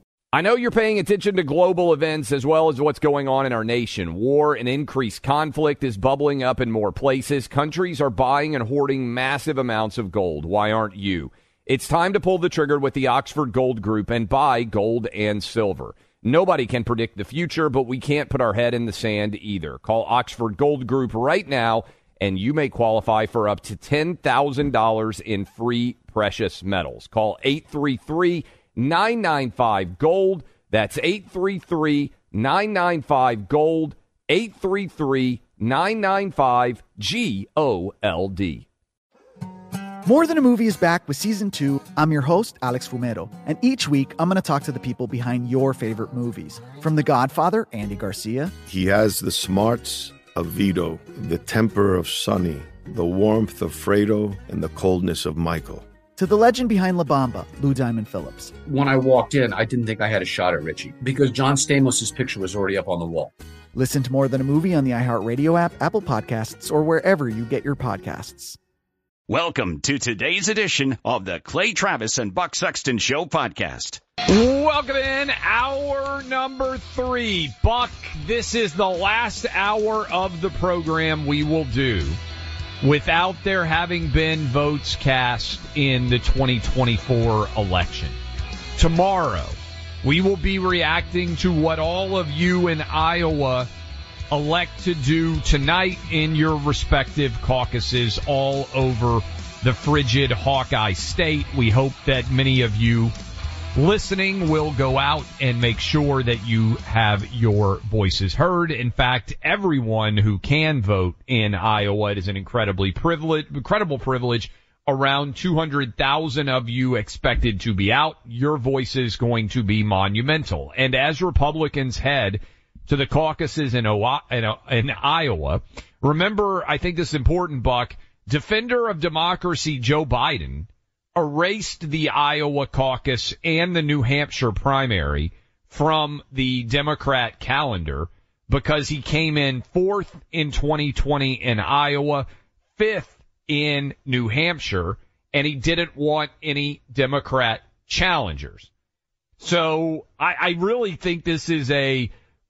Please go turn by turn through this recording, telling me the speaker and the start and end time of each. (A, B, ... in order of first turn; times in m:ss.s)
0:00.3-0:38.6 A
0:40.0-0:48.5 B
0:48.6-0:55.8 C
0:56.2-0:58.5 B
0:58.6-1:03.3 D
1:03.7-1:08.6 B
1:09.3-1:14.0 E
1:14.3-1:22.2 A
1:22.8-1:28.2 A
1:28.8-1:33.7 A
1:34.3-1:43.1 A
1:43.7-2:22.2 A
2:22.8-2:28.7 A
2:29.4-2:32.1 A